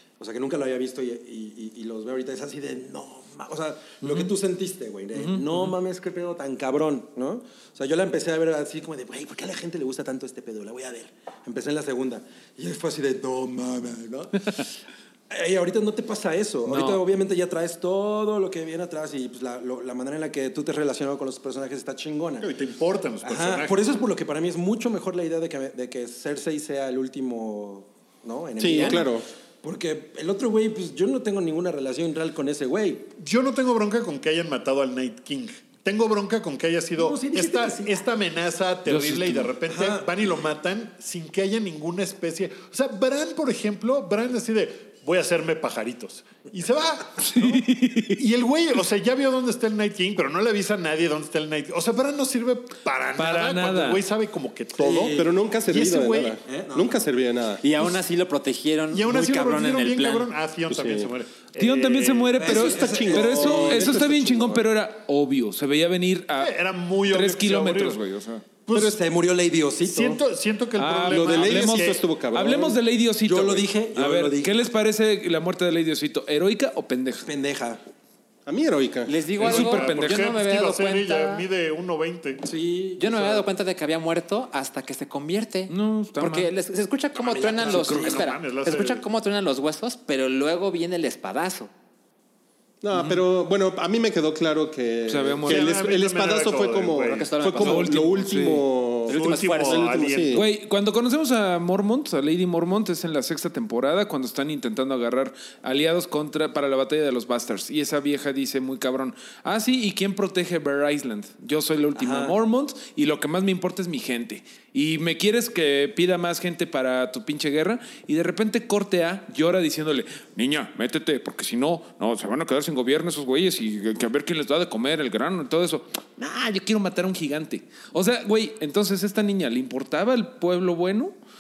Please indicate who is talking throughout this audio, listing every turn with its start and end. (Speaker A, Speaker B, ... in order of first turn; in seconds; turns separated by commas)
Speaker A: 0.2-14.7, Speaker B: 4.0-4.3, Speaker B: 5.2-5.8, Speaker A: 15.3-22.5, Speaker B: 16.7-17.0, Speaker C: 22.4-23.8, Speaker A: 23.2-33.1, Speaker D: 28.6-29.3, Speaker C: 33.2-56.4, Speaker A: 37.0-38.0, Speaker B: 38.9-39.5, Speaker A: 39.7-40.1, Speaker B: 47.2-48.2, Speaker B: 53.2-54.0, Speaker A: 54.8-55.3, Speaker D: 55.1-57.6, Speaker A: 56.4-57.0, Speaker E: 57.6-60.3, Speaker C: 58.9-62.6, Speaker D: 60.7-61.1, Speaker B: 61.6-68.5, Speaker A: 62.4-64.0, Speaker D: 62.4-64.7, Speaker C: 66.4-68.0, Speaker C: 68.7-69.0, Speaker A: 68.7-70.2, Speaker C: 69.9-72.0, Speaker B: 70.8-77.3, Speaker D: 71.1-72.8, Speaker A: 73.2-74.5, Speaker A: 77.2-77.8, Speaker D: 78.5-79.1, Speaker E: 79.1-81.5, Speaker B: 79.4-80.3, Speaker C: 79.4-82.4, Speaker A: 82.4-83.5, Speaker E: 83.0-91.7, Speaker B: 85.7-86.5, Speaker A: 87.2-88.2, Speaker C: 87.4-89.0, Speaker D: 92.8-100.5, Speaker B: 92.9-93.2, Speaker B: 95.1-95.7, Speaker C: 95.5-97.3, Speaker E: 97.0-98.0, Speaker B: 97.6-98.7, Speaker E: 99.1-100.1, Speaker C: 99.1-100.5, Speaker B: 100.3-131.1, Speaker A: 112.0-112.4